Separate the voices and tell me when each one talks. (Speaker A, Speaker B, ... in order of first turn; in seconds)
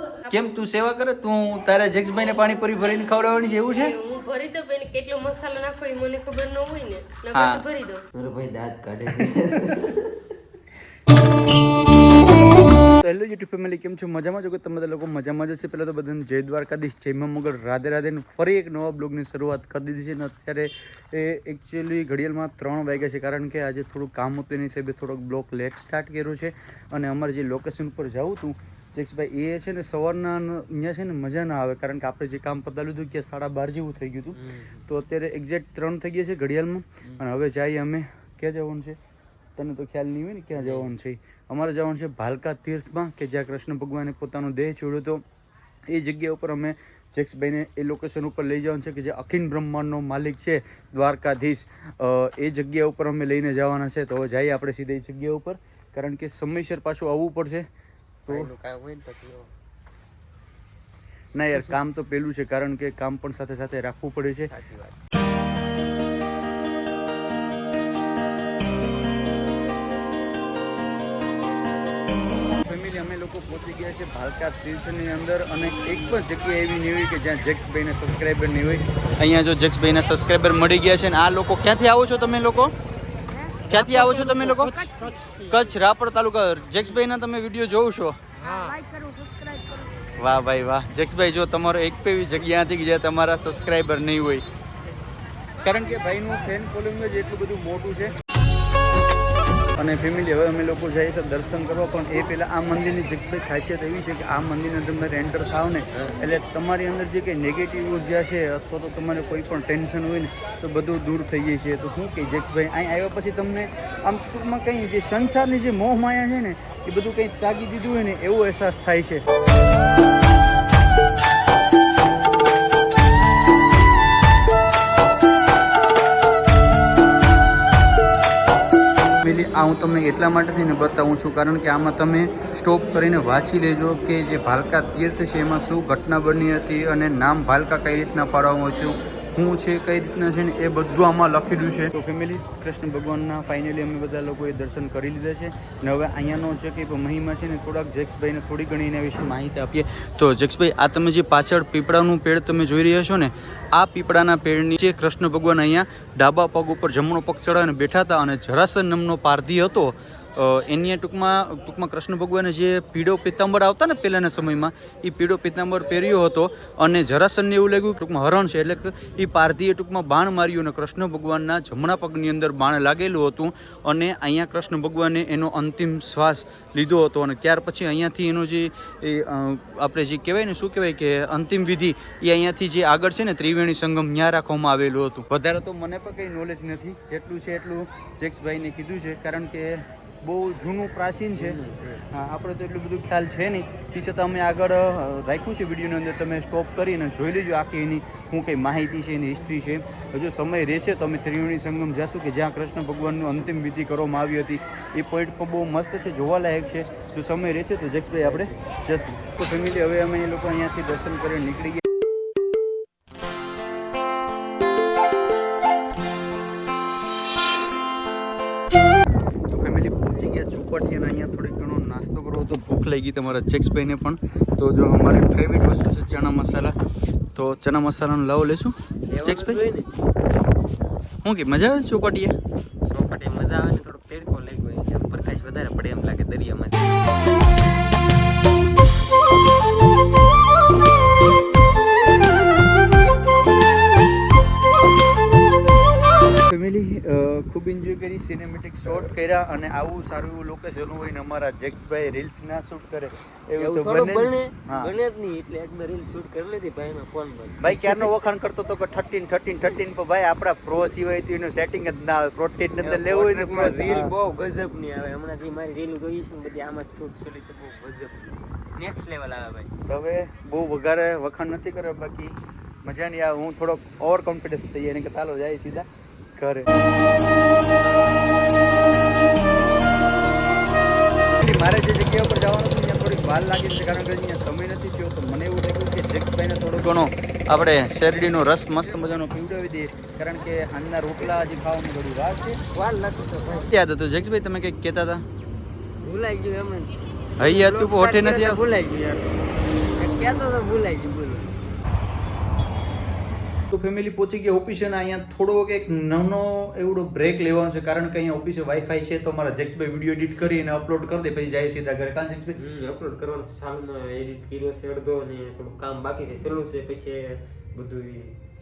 Speaker A: 0.3-3.9, 7.3-7.6, 13.0-39.0, 39.6-45.2, 45.9-57.7, 61.4-64.5, 72.6-82.7, 83.7-88.2, 90.2-94.4, 95.6-98.1, 99.8-119.2, 129.2-191.6, 192.1-211.8, 219.5-226.7, 227.3-229.6, 231.2-232.3, 246.4-254.9, 257.6-264.1, 269.9-275.9, 276.4-276.7, 281.4-292.6, 293.7-295.2, 297.4-298.6, 303.7-312.6
Speaker B: 3.8-8.0
Speaker C: 8.2-10.1, 34.3-34.8, 40.5-40.9, 58.3-59.5, 64.5-65.1, 88.7-89.0, 105.9-106.2, 191.3-192.0, 208.2-208.6, 229.1-229.9, 232.9-237.2, 253.6-258.1, 262.8-269.7, 292.7-293.7, 296.0-299.4, 299.9-301.5, 312.5-318.4